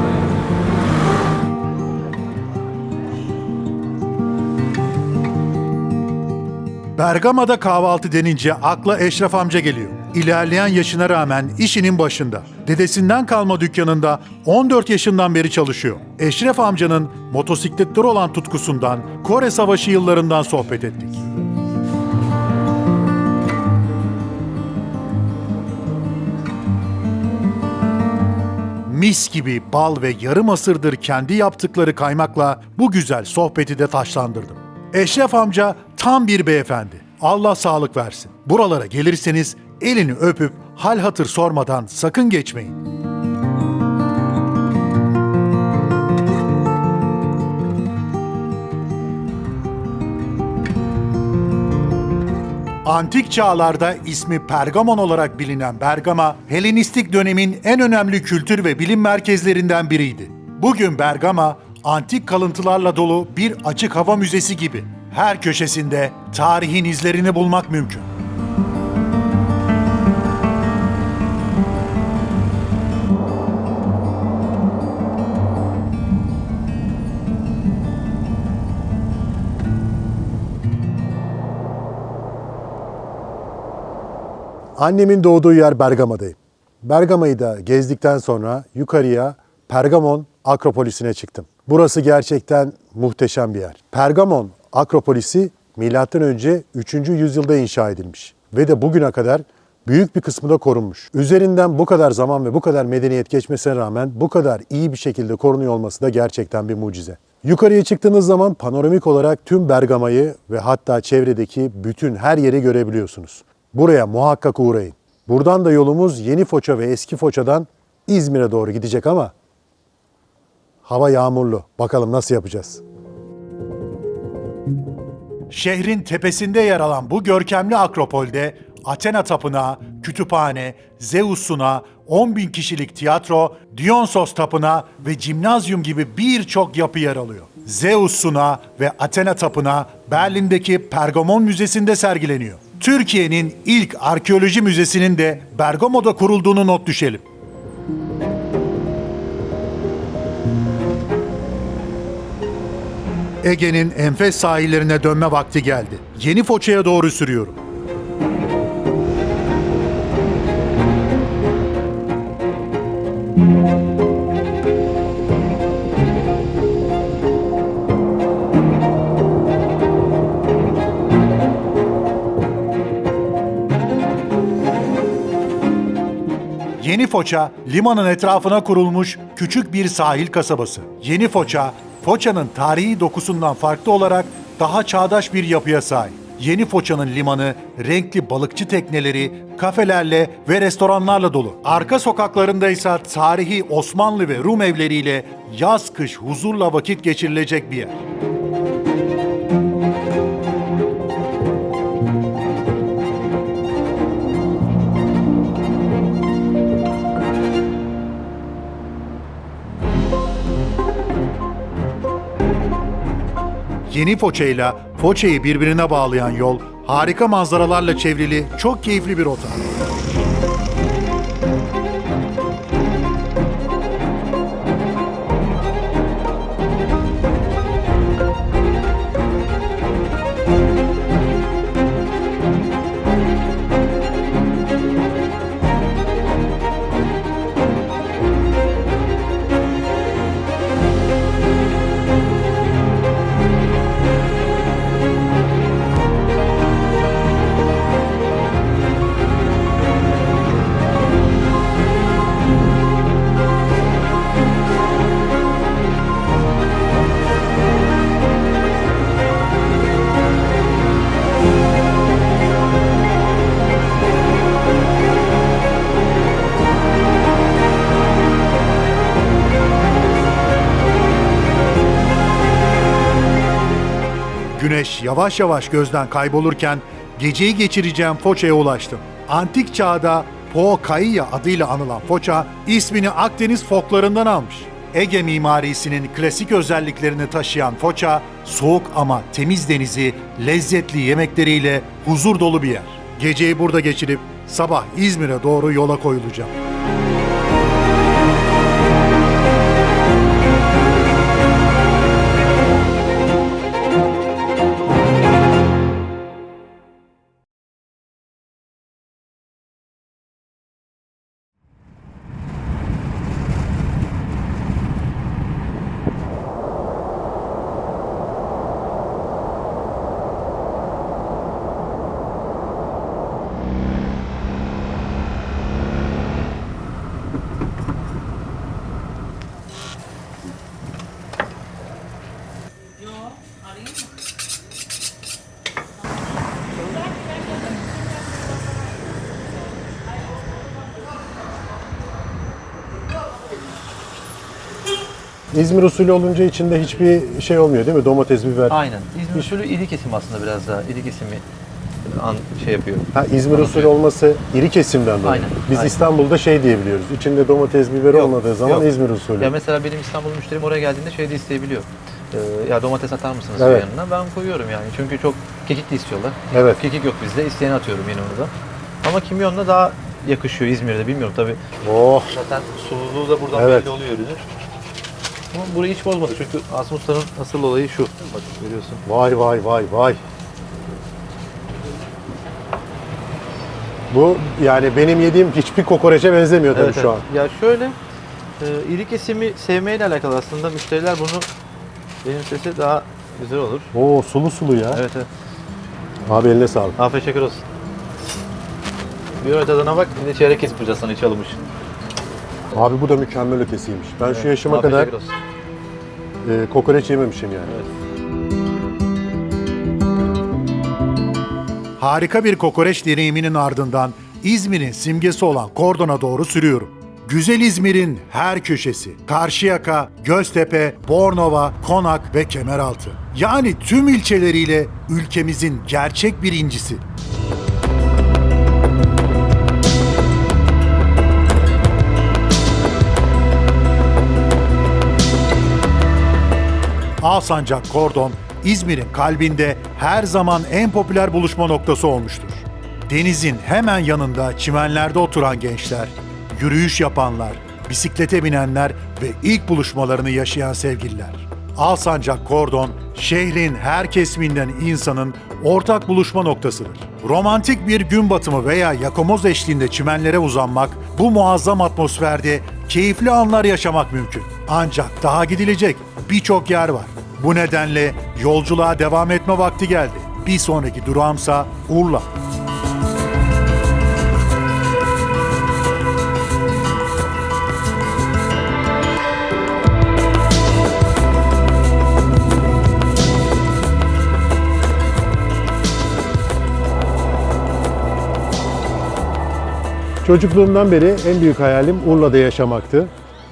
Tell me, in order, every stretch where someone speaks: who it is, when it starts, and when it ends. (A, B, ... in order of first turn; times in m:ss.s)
0:07.0-0:21.2 A
0:28.9-0:42.8 A
0:52.8-1:08.1 A
1:24.8-1:59.3 B
2:00.8-2:02.8 B
2:05.5-2:27.2 A
2:33.4-2:37.6 A
2:56.8-3:18.0 A
3:33.9-3:39.7 A
4:34.6-4:56.5 A
5:45.5-5:48.8 B
5:48.7-5:51.4 C
5:52.1-5:53.9 C
5:53.1-5:59.6 B
5:55.2-5:56.0 C
5:58.1-6:11.6 C
6:03.6-6:03.9 B
6:06.5-6:06.8 B
6:11.8-6:12.3 B
6:12.3-6:14.5 C
6:13.5-6:13.9 B
6:15.5-6:19.0 C
6:19.0-6:20.2 B
6:24.1-6:27.2 B
6:26.7-6:28.0 C
6:28.6-6:31.5 C
6:32.2-6:33.9 C
6:33.9-6:35.0 B
6:34.9-6:35.3 C
6:36.3-6:37.0 B
6:37.0-6:37.6 C
6:39.4-6:41.6 C
6:42.7-6:45.1 B
6:44.2-6:45.4 C
6:46.4-6:47.8 B
6:52.0-7:07.0 A
7:17.2-7:52.3 A
8:10.2-8:13.1 B